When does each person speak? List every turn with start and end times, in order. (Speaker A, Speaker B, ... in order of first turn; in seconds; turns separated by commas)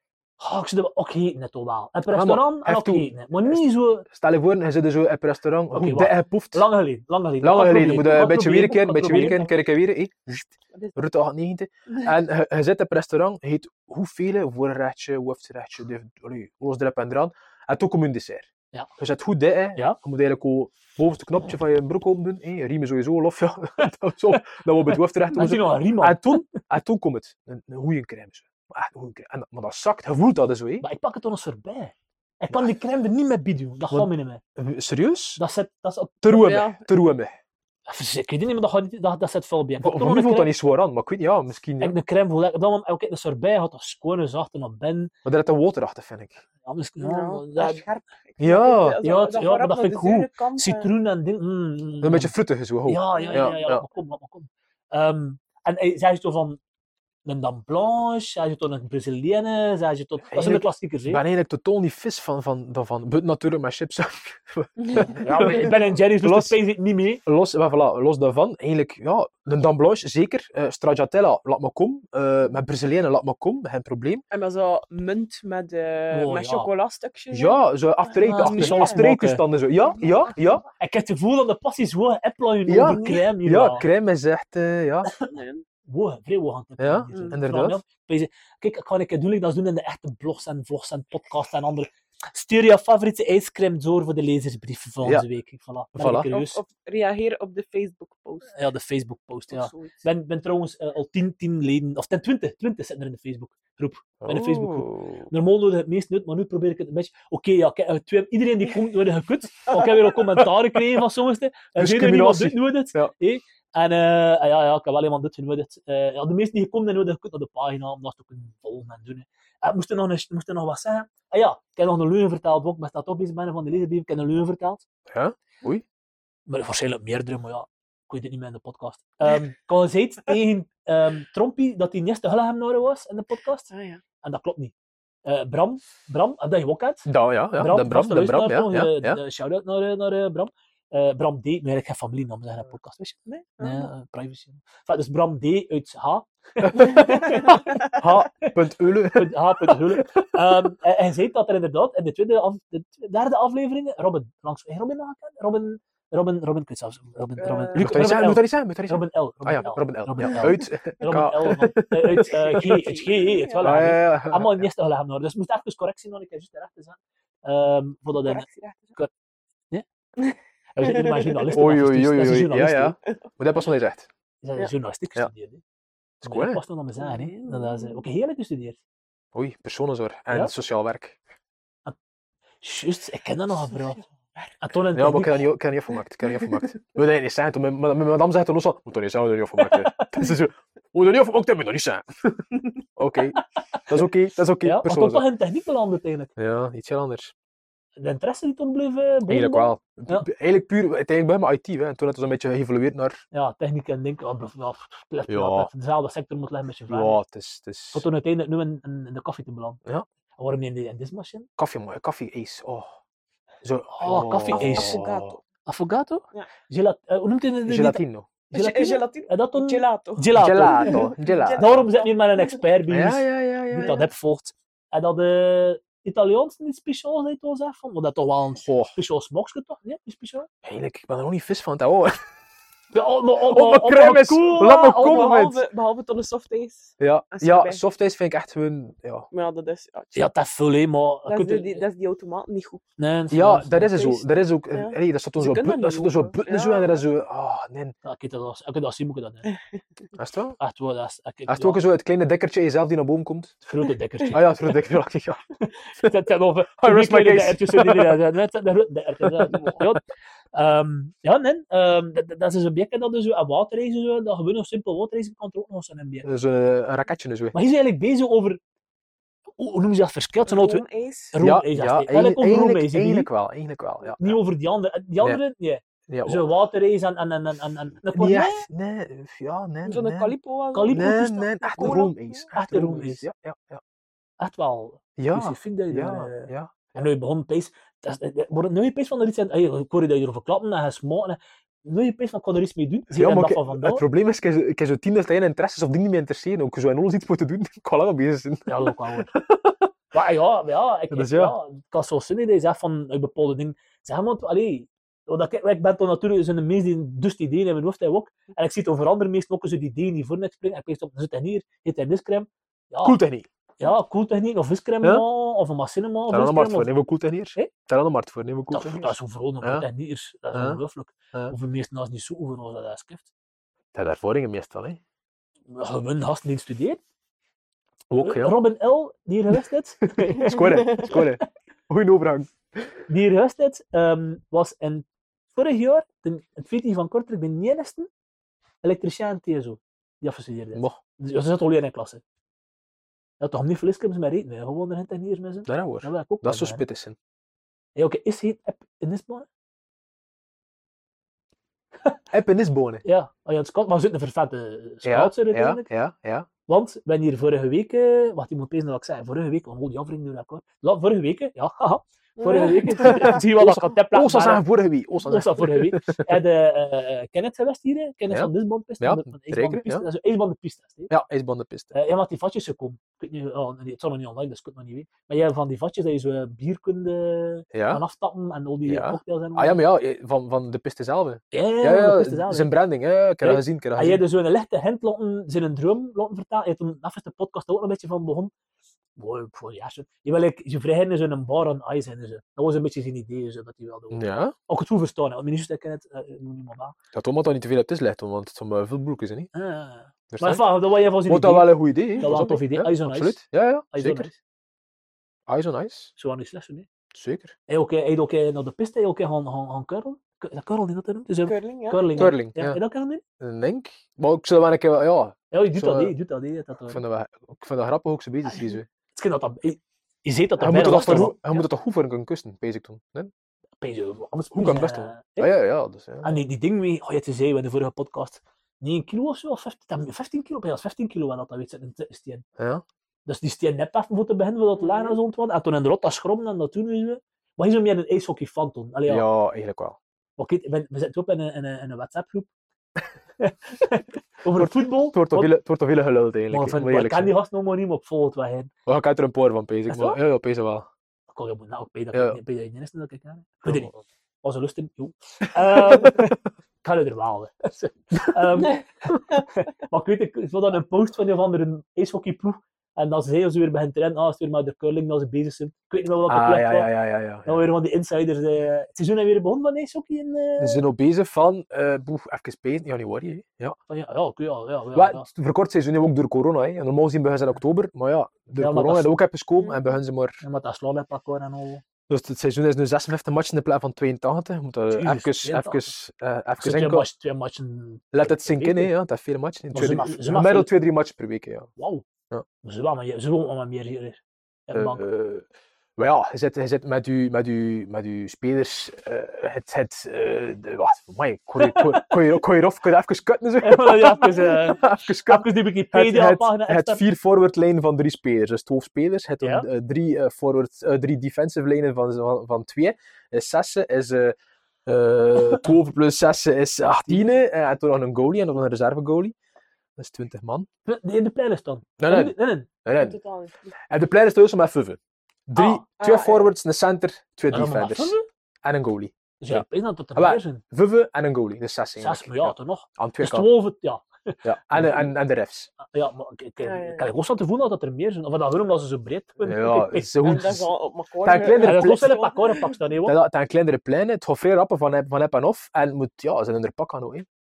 Speaker A: 0.4-4.0, Speaker B: 2.1-6.7, Speaker A: 5.7-9.5, Speaker B: 7.4-30.9, Speaker A: 25.3-26.5, Speaker A: 30.8-34.4, Speaker B: 33.9-35.4, Speaker A: 35.4-36.3, Speaker B: 36.2-37.4, Speaker C: 36.3-36.8, Speaker A: 37.9-40.5, Speaker B: 39.8-42.0, Speaker A: 41.8-45.1, Speaker B: 45.2-46.4, Speaker A: 46.6-47.8, Speaker C: 47.0-50.9, Speaker B: 48.4-49.0, Speaker A: 49.0-52.3, Speaker B: 52.0-53.9, Speaker A: 52.9-56.6, Speaker C: 53.1-53.6, Speaker A: 57.3-61.2, Speaker B: 60.3-66.6, Speaker C: 64.8-65.5, Speaker A: 65.2-67.2, Speaker B: 67.2-74.2, Speaker C: 74.3-79.1, Speaker A: 76.1-76.7, Speaker B: 77.3-80.6, Speaker A: 78.2-79.4, Speaker C: 80.0-80.3, Speaker A: 80.8-83.8, Speaker B: 82.7-85.1, Speaker C: 82.9-83.2, Speaker C: 85.3-85.7, Speaker A: 85.9-96.6, Speaker B: 86.8-87.8, Speaker C: 87.1-87.4, Speaker B: 95.9-96.3, Speaker C: 96.2-98.5, Speaker A: 98.5-124.8, Speaker C: 99.5-100.0, Speaker B: 104.2-105.3, Speaker B: 111.8-113.1, Speaker B: 125.1-125.8, Speaker A: 126.5-133.7, Speaker C: 133.7-134.0, Speaker A: 134.2-134.7, Speaker A: 135.3-147.8, Speaker B: 137.1-139.2, Speaker C: 143.3-143.9, Speaker B: 146.6-150.3, Speaker C: 147.0-147.8, Speaker A: 149.1-169.1, Speaker C: 157.4-158.1, Speaker B: 157.8-162.9, Speaker C: 162.5-163.9, Speaker B: 163.6-164.7, Speaker C: 168.2-168.9, Speaker C: 170.2-171.5, Speaker A: 170.8-173.0, Speaker B: 171.5-174.1, Speaker A: 174.4-175.6, Speaker B: 176.2-176.6, Speaker A: 176.2-178.8, Speaker C: 177.0-178.0, Speaker B: 179.3-181.2, Speaker A: 182.6-184.0, Speaker A: 184.6-185.4, Speaker B: 184.9-195.2, Speaker A: 189.6-190.2, Speaker A: 194.6-196.3, Speaker B: 196.4-197.3, Speaker A: 198.0-200.3, Speaker B: 199.3-203.2, Speaker A: 203.3-207.2, Speaker B: 205.3-205.7, Speaker B: 206.9-208.1, Speaker A: 207.9-209.8, Speaker A: 210.4-211.5, Speaker B: 211.6-213.0, Speaker B: 213.6-215.4, Speaker A: 213.9-215.0, Speaker C: 214.4-215.4, Speaker A: 215.7-218.0, Speaker B: 217.7-218.3, Speaker C: 218.5-222.6, Speaker A: 218.5-230.5, Speaker B: 220.3-221.9, Speaker B: 222.9-224.0, Speaker B: 228.6-229.0, Speaker B: 230.6-232.2, Speaker A: 232.9-234.9, Speaker B: 233.4-235.6, Speaker C: 234.6-237.8, Speaker B: 237.0-239.3, Speaker C: 239.3-240.3, Speaker A: 240.1-241.8, Speaker C: 241.3-242.8, Speaker A: 243.0-243.9, Speaker B: 243.3-247.9, Speaker C: 243.9-247.0, Speaker A: 248.1-249.5, Speaker C: 249.5-249.8, Speaker B: 250.2-250.6, Speaker A: 250.6-251.8, Speaker B: 251.5-253.6, Speaker A: 253.7-254.5, Speaker B: 254.3-255.4, Speaker A: 255.6-266.3, Speaker B: 256.8-258.2, Speaker B: 259.2-259.9, Speaker B: 266.2-267.6, Speaker A: 267.5-268.6, Speaker A: 269.6-273.3, Speaker C: 270.5-271.4, Speaker B: 271.4-274.4, Speaker A: 274.2-278.7, Speaker B: 276.1-276.5, Speaker B: 278.1-280.4, Speaker C: 279.9-282.5, Speaker A: 280.8-282.0, Speaker B: 280.9-283.8, Speaker A: 282.5-283.2, Speaker A: 284.4-294.0, Speaker B: 285.2-286.8, Speaker B: 293.1-299.9, Speaker A: 298.7-299.3, Speaker A: 300.1-313.2, Speaker B: 301.1-301.6, Speaker B: 313.0-313.5, Speaker A: 313.8-316.9, Speaker B: 316.3-319.9, Speaker A: 318.7-323.3, Speaker B: 320.5-320.8, Speaker B: 323.9-325.0, Speaker A: 325.7-327.0, Speaker B: 328.1-328.6, Speaker A: 328.2-331.3, Speaker B: 330.2-332.9, Speaker A: 333.1-338.1, Speaker A: 338.8-342.2, Speaker A: 343.4-346.8, Speaker B: 345.7-347.2, Speaker A: 348.0-349.5, Speaker B: 352.3-353.0, Speaker A: 353.1-355.9, Speaker B: 355.0-356.5, Speaker A: 356.7-364.6, Speaker C: 362.4-363.4, Speaker B: 362.9-366.4, Speaker A: 365.2-371.1, Speaker B: 368.3-370.1, Speaker B: 371.1-371.9, Speaker A: 371.9-379.8, Speaker B: 377.7-378.0, Speaker B: 378.9-384.2, Speaker A: 381.5-382.7, Speaker A: 383.4-388.5, Speaker A: 389.2-397.0, Speaker B: 394.1-394.6, Speaker B: 397.1-399.5, Speaker A: 399.5-403.4, Speaker B: 400.3-400.6, Speaker B: 401.3-404.3, Speaker A: 403.9-404.4, Speaker B: 405.5-406.1, Speaker A: 406.2-406.9, Speaker B: 407.1-407.5, Speaker A: 407.7-413.2, Speaker C: 411.5-412.4, Speaker B: 412.2-412.8, Speaker B: 413.4-416.1, Speaker A: 415.5-417.0, Speaker B: 416.9-418.9, Speaker A: 418.5-421.6, Speaker B: 420.6-423.3, Speaker A: 423.8-425.5, Speaker B: 424.5-426.4, Speaker A: 426.2-432.4, Speaker B: 432.6-432.8, Speaker A: 433.3-439.2, Speaker C: 434.8-435.2, Speaker B: 439.1-440.0, Speaker A: 440.4-442.5, Speaker A: 443.4-445.5, Speaker B: 444.6-447.4, Speaker A: 446.5-448.7, Speaker B: 448.9-450.9, Speaker A: 449.9-450.2, Speaker A: 451.3-453.9, Speaker B: 452.1-452.4, Speaker B: 453.7-454.0, Speaker A: 454.4-466.9, Speaker B: 455.6-456.3, Speaker B: 466.3-467.7, Speaker A: 467.4-470.8, Speaker B: 470.6-473.8, Speaker A: 473.9-475.3, Speaker B: 474.9-480.4, Speaker A: 478.6-479.1, Speaker C: 479.6-480.0, Speaker A: 480.4-481.8, Speaker B: 482.1-487.1, Speaker A: 484.9-485.9, Speaker A: 486.6-488.9, Speaker B: 488.1-491.7, Speaker A: 489.7-490.7, Speaker A: 491.8-492.1, Speaker A: 492.6-495.0, Speaker B: 494.7-519.4, Speaker A: 501.6-502.2, Speaker A: 503.6-507.0, Speaker A: 509.4-509.7, Speaker B: 520.0-520.7, Speaker A: 520.9-522.7, Speaker B: 522.0-523.2, Speaker C: 523.0-523.8, Speaker B: 523.9-533.5, Speaker A: 525.6-525.8, Speaker C: 526.0-526.5, Speaker A: 527.5-528.2, Speaker A: 529.4-530.6, Speaker A: 532.0-535.1, Speaker B: 534.4-535.7, Speaker A: 535.8-540.4, Speaker C: 536.6-537.1, Speaker B: 539.4-540.7, Speaker C: 540.2-542.8, Speaker B: 541.2-542.1, Speaker A: 541.6-543.2, Speaker B: 543.1-547.3